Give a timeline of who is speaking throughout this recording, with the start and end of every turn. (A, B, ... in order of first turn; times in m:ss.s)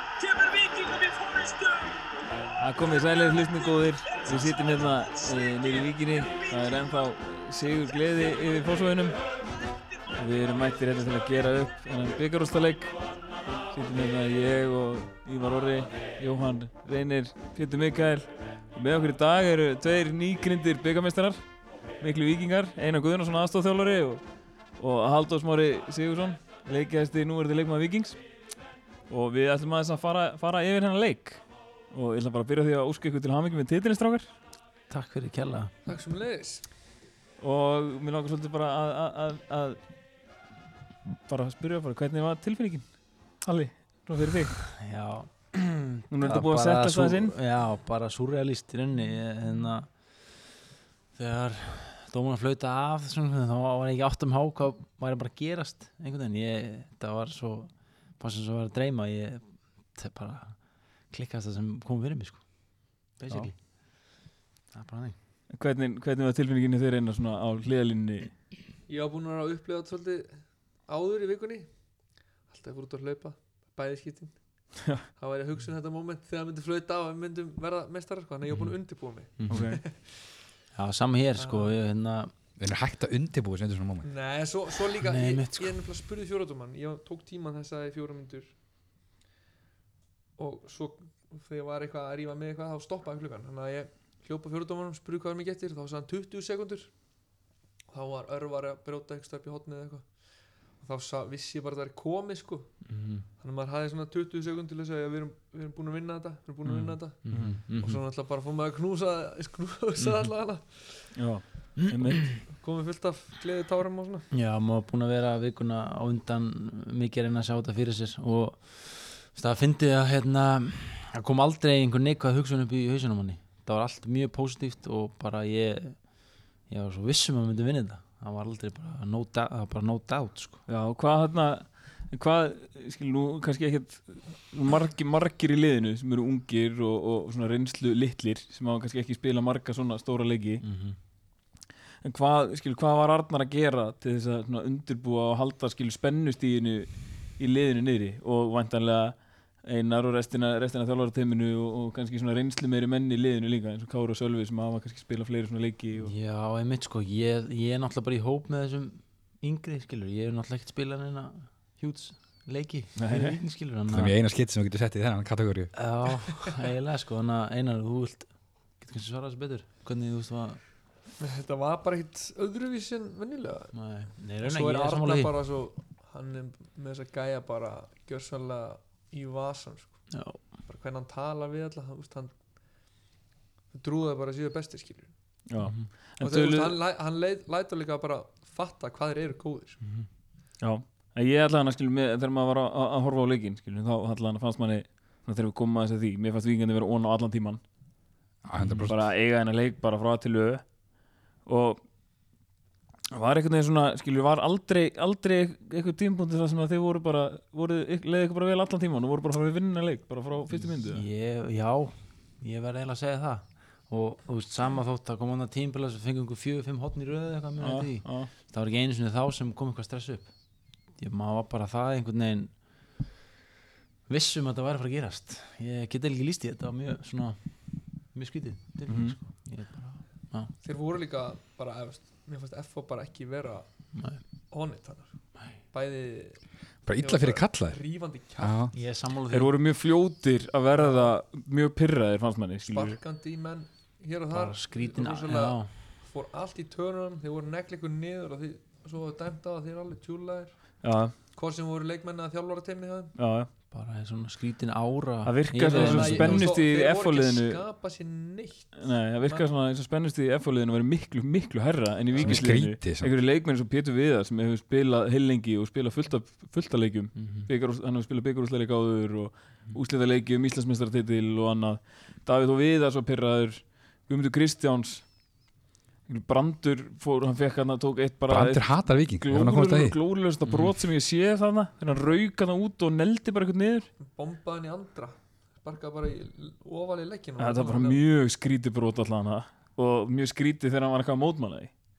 0:00.2-0:02.0 A
0:02.6-0:09.2 B
0:02.9-0:06.9 A
0:10.2-0:12.9 B
0:13.7-0:21.4 B
0:22.0-0:24.2 B
0:24.8-0:28.2 B
0:29.1-0:34.3 B
0:34.9-0:35.7 C
0:35.9-0:36.7 D
0:37.4-0:39.8 B
0:41.3-0:42.9 B
0:43.4-0:44.6 B
0:44.6-0:49.9 C
0:46.1-0:47.4 B
0:51.2-1:00.6 C
1:01.1-1:02.4 C
1:03.2-1:03.6 C
1:04.7-1:05.2 C
1:05.5-1:08.3 B
1:08.9-1:10.3 D
1:10.9-1:11.7 D
1:12.5-1:14.4 D
1:14.9-1:20.1 D
1:18.5-1:18.7 C
1:19.4-1:19.7 C
1:19.5-1:19.8 B
1:20.7-1:22.3 C
1:21.4-1:21.7 D
1:22.6-1:24.1 E
1:24.0-1:28.5 D
1:25.0-1:25.8 C
1:30.4-1:36.9 D
1:37.9-1:40.1 D
1:40.8-1:42.9 D
1:42.9-1:43.2 C
1:43.4-1:51.1 D
1:46.6-1:48.0 C
1:47.3-1:47.6 B
1:50.0-1:50.3 C
1:51.2-1:52.3 B
1:51.8-1:52.4 C
1:52.5-1:54.3 D
1:54.3-2:06.0 C
2:06.7-2:10.6 C
2:10.7-2:20.6 B
2:20.6-2:21.0 C
2:22.0-2:36.2 B
2:36.0-2:44.2 C
2:43.0-2:43.4 B
2:43.9-2:45.7 E
2:45.7-2:50.6 C
2:51.2-2:53.8 D
2:53.7-2:55.4 C
2:54.4-3:00.1 D
3:00.1-3:00.4 C
3:00.7-3:02.4 D
3:03.7-3:05.1 D
3:05.5-3:06.8 B
3:05.6-3:05.9 C
3:06.2-3:09.8 D
3:10.6-3:17.6 B
3:18.4-3:19.0 E
3:18.6-3:18.9 C
3:18.8-3:20.7 B
3:21.5-3:21.8 B
3:23.1-3:31.0 B
3:30.5-3:40.3 C
3:37.6-3:38.3 B
3:41.0-3:42.5 C
3:44.1-3:50.5 C
3:48.9-3:49.2 B
3:50.6-3:53.7 D
3:53.9-3:54.2 C
3:54.5-3:55.1 D
3:55.7-3:56.4 D
3:56.9-3:57.8 E
3:57.0-3:58.6 D
3:58.4-3:58.7 E
3:58.7-3:59.5 C
3:59.3-4:03.0 B
4:00.8-4:01.2 D
4:02.7-4:13.1 D
4:04.3-4:05.7 C
4:10.8-4:11.1 B
4:13.2-4:13.5 B
4:13.7-4:16.6 C
4:15.2-4:17.6 B
4:15.7-4:19.5 D
4:18.8-4:35.1 B
4:22.1-4:22.4 D
4:22.2-4:23.1 E
4:27.2-4:27.5 C
4:36.1-4:43.9 B
4:38.3-4:40.0 E
4:40.4-4:40.8 C
4:44.0-4:48.0 D
4:47.4-4:51.7 B